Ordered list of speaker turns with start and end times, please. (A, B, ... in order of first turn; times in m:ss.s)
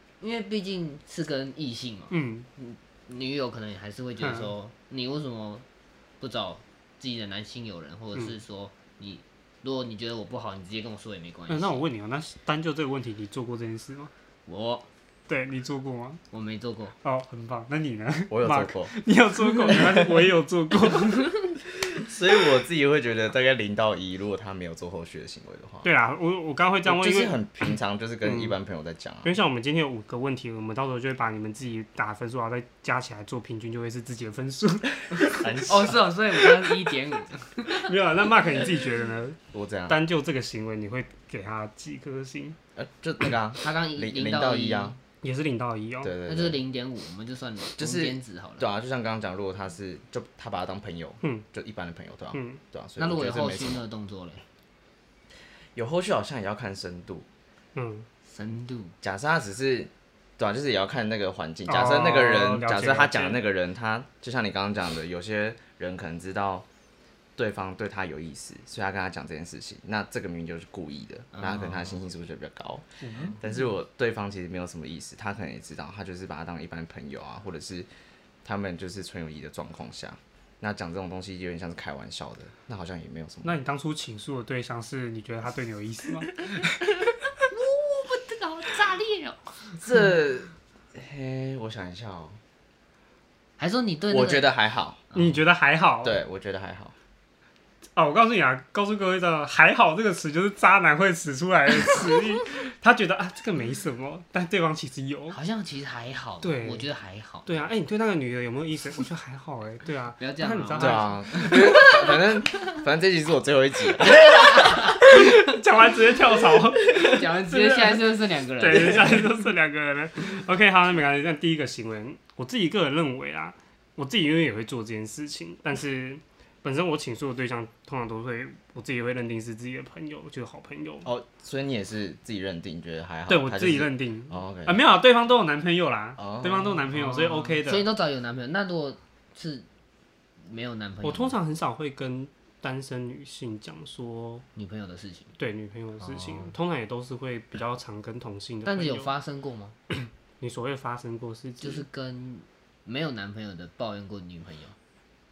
0:00.2-0:05.6 A
0:02.1-0:02.5 B
0:04.2-0:04.5 B
0:06.2-0:11.8 A
0:11.5-0:14.1 B
0:14.5-0:14.9 A
0:15.3-0:16.2 B
0:16.3-0:17.0 A
0:17.0-0:21.4 B
0:18.3-0:18.9 C
0:21.8-0:25.9 C
0:25.8-0:27.4 B
0:26.9-0:29.3 C
0:28.2-0:28.5 B
0:29.2-0:35.6 B
0:35.4-0:36.1 C
0:35.7-0:37.9 A
0:37.7-0:39.4 B
0:39.5-0:40.0 C
0:39.9-0:42.6 B
0:42.8-0:45.0 C
0:43.6-0:45.0 A
0:45.2-0:46.1 B
0:46.0-0:46.6 C
0:46.3-0:48.6 A
0:47.8-0:53.8 C
0:52.3-0:52.6 B
0:53.0-0:54.4 A
0:55.8-0:57.3 C
0:57.8-0:58.1 B
0:58.3-0:59.0 A
0:59.0-1:06.7 C
1:01.7-1:03.4 B
1:07.4-1:17.9 C
1:11.3-1:12.0 A
1:13.0-1:13.4 B
1:18.4-1:23.6 C
1:23.4-1:26.9 B
1:27.5-1:29.8 A
1:29.8-1:32.4 C
1:33.6-1:34.5 A
1:34.1-1:35.0 C
1:35.1-1:35.4 A
1:35.1-1:36.2 B
1:36.0-1:36.9 C
1:38.0-1:45.4 B
1:45.3-1:47.5 A
1:46.4-1:46.9 B
1:47.4-1:51.9 B
1:50.2-1:52.8 A
1:50.8-1:54.8 C
1:54.2-1:55.0 A
1:54.6-1:58.0 B
1:56.8-1:59.3 A
1:58.6-2:11.1 B
2:11.0-2:14.8 C
2:13.3-2:17.9 B
2:16.2-2:16.8 C
2:16.9-2:19.6 A
2:20.5-2:21.4 A
2:21.0-2:24.4 B
2:24.6-2:25.3 A
2:25.4-2:29.1 B
2:26.0-2:26.5 A
2:28.7-2:29.8 A
2:29.9-2:31.8 B
2:31.6-2:34.8 A